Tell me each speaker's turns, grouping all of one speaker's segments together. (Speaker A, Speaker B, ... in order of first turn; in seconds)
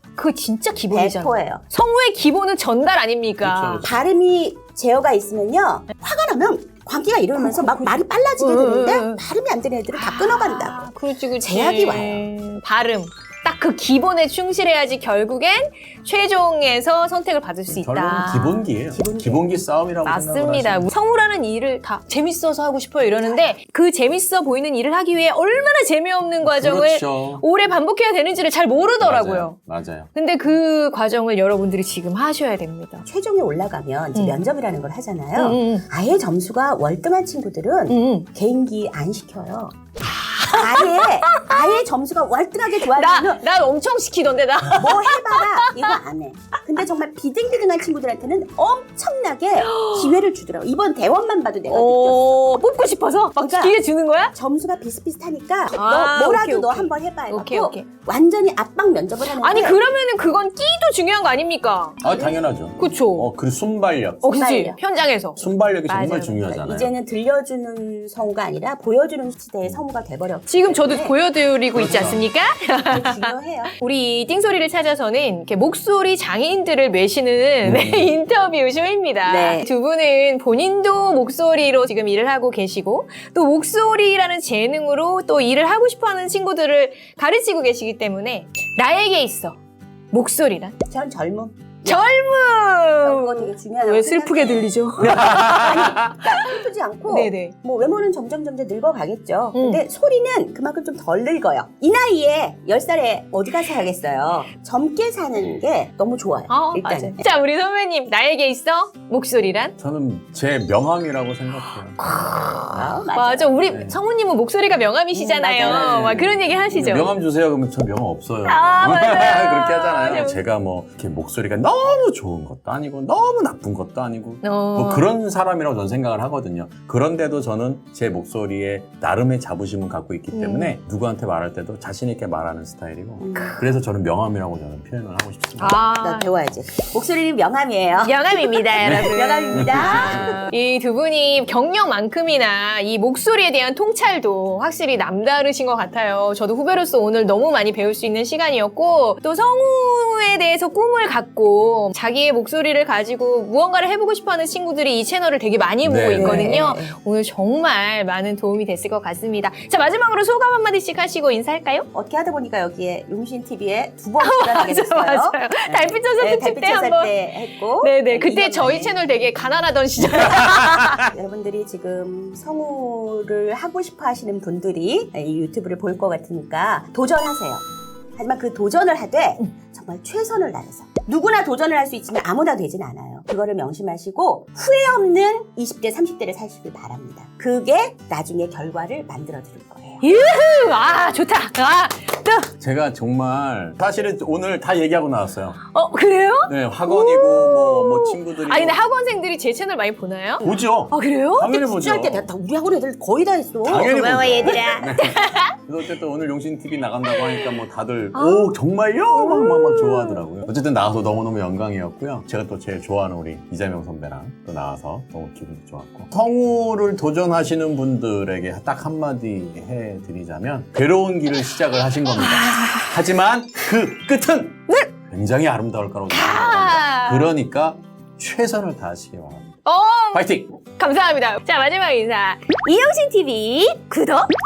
Speaker A: 0.2-3.9, 7.4-9.2, 9.9-18.7, 20.0-29.6, 30.1-33.0, 34.1-34.5, 35.4-35.8, 37.9-38.3, 40.3-41.8, 42.8-46.0, 49.6-50.3, 51.7-54.3, 55.7-57.9, 59.4-62.0, 62.8-63.3, 64.2-66.5, 70.5-89.6, 90.1-90.8, 91.9-97.5, 99.5-99.8, 106.5-109.8, 112.0-117.1, 118.4-120.4, 124.4-125.1, 130.3-130.8, 133.3-133.6, 135.6-136.3, 138.0-161.9, 164.2-171.1, 190.0-192.5, 195.7-201.6, 203.7-205.5, 207.2-207.6, 208.1-208.5, 209.0-210.2, 222.1-223.0, 226.1-227.3, 229.7-230.2, 230.8-234.3
Speaker B: 0.9-1.6, 3.8-12.3, 18.9-19.6, 23.1-23.6, 33.1-39.7, 40.5-43.5, 44.8-52.7, 53.4-53.8, 54.3-59.8, 62.1-62.4, 64.3-64.8, 66.5-71.2, 72.9-73.7, 79.3-79.7, 90.9-92.2, 93.0-107.2, 112.7-113.6, 115.1-116.5, 133.2-133.6, 136.0-140.4, 156.2-156.9, 161.9-169.0, 170.2-177.6, 178.2-190.0, 201.6-204.9
Speaker C: 3.4-3.9, 17.7-20.9, 26.4-27.4, 29.0-30.1, 62.0-64.3, 65.4-67.0, 71.7-72.2, 77.6-78.2, 95.0-95.8, 109.8-112.2, 113.7-114.0, 115.6-135.8, 138.8-140.3, 155.8-156.3, 192.6-195.6, 196.5-198.8, 200.4-202.3, 203.7-229.5, 230.1-230.5